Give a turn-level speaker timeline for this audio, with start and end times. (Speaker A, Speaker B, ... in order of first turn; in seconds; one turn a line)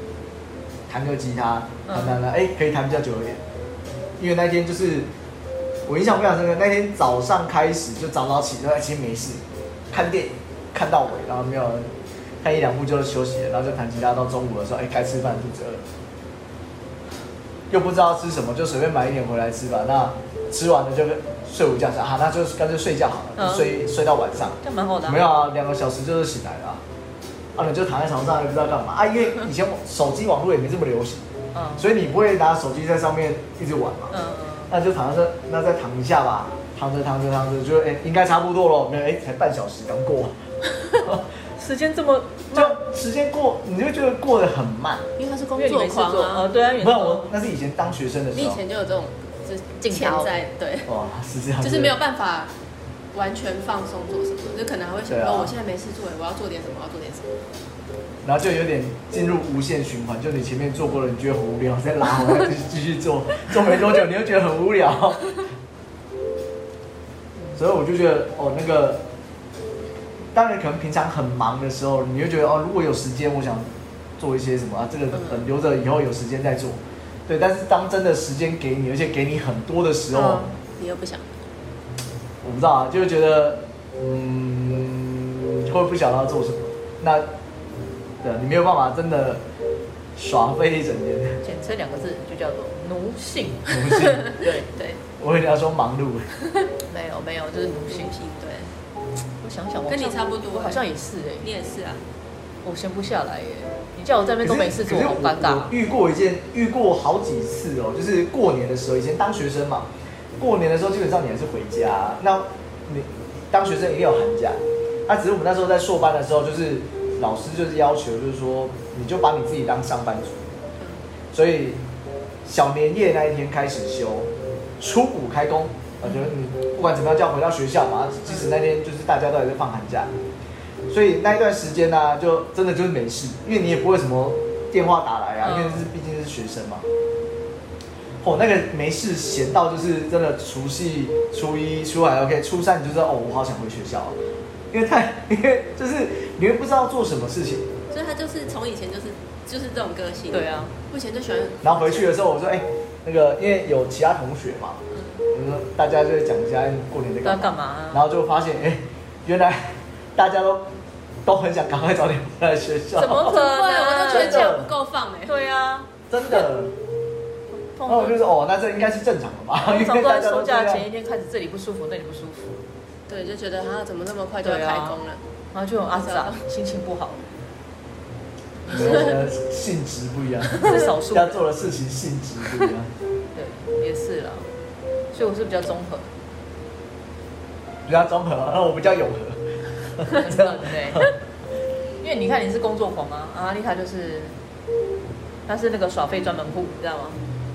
Speaker A: 0.9-3.4
Speaker B: 1.9-2.2
Speaker A: 4.2-5.1
Speaker A: 5.9-15.8
Speaker A: 17.7-26.8
Speaker B: 23.4-23.7
Speaker B: 24.6-25.2
Speaker A: 27.6-31.2
Speaker B: 31.5-31.9
Speaker A: 31.8-34.1
Speaker B: 34.1-34.7
Speaker A: 34.7-40.4
Speaker B: 41.6-42.8
Speaker A: 42.5-45.1
Speaker C: 45.2-46.5
Speaker B: 45.6-47.3
Speaker A: 46.8-48.6
Speaker C: 48.3-50.9
Speaker B: 49.8-50.3
Speaker A: 50.9-52.0
Speaker C: 51.6-52.5
Speaker C: 53.1-57.3
Speaker A: 55.1-55.5
Speaker A: 58.2-65.4
Speaker A: 67.5-69.0
Speaker A: 70.3-80.5
Speaker B: 80.1-80.5
Speaker C: 80.8-81.4
Speaker A: 82.4-87.3
Speaker A: 88.2-89.4
Speaker A: 90.2-91.4
Speaker B: 91.4-94.7
Speaker A: 93.7-94.4
Speaker C: 94.7-95.0
Speaker A: 95.2-96.3
Speaker B: 96.9-98.1
Speaker C: 97.9-98.7
Speaker B: 99.4-101.5
Speaker C: 99.9-100.8
Speaker C: 101.4-102.0
Speaker B: 102.6-105.7
Speaker A: 104.4-120.5
Speaker A: 121.3-121.8
Speaker A: 122.5-130.1
Speaker A: 130.9-136.8
Speaker B: 135.4-135.8
Speaker A: 138.2-144.2
Speaker A: 144.7-147.7
Speaker C: 147.9-152.1
Speaker B: 150.3-150.7
Speaker A: 151.6-160.7
Speaker C: 154.9-155.2
Speaker B: 157.2-158.1
Speaker A: 161.2-163.4
Speaker B: 163.0-164.6
Speaker C: 163.2-165.3
Speaker A: 164.1-164.7
Speaker B: 165.3-165.9
Speaker A: 166.1-166.8
Speaker B: 167.7-168.2
Speaker A: 167.9-170.8
Speaker B: 169.6-172.6
Speaker C: 173.1-175.2
Speaker B: 174.4-175.0
Speaker B: 175.5-177.2
Speaker C: 176.0-176.4
Speaker A: 178.7-182.9
Speaker B: 180.6-181.4
Speaker B: 183.3-184.5
Speaker B: 185.1-186.1
Speaker A: 187.9-189.4
Speaker A: 189.9-191.1
Speaker B: 190.1-191.1
Speaker B: 192.0-194.4
Speaker B: 195.5-197.2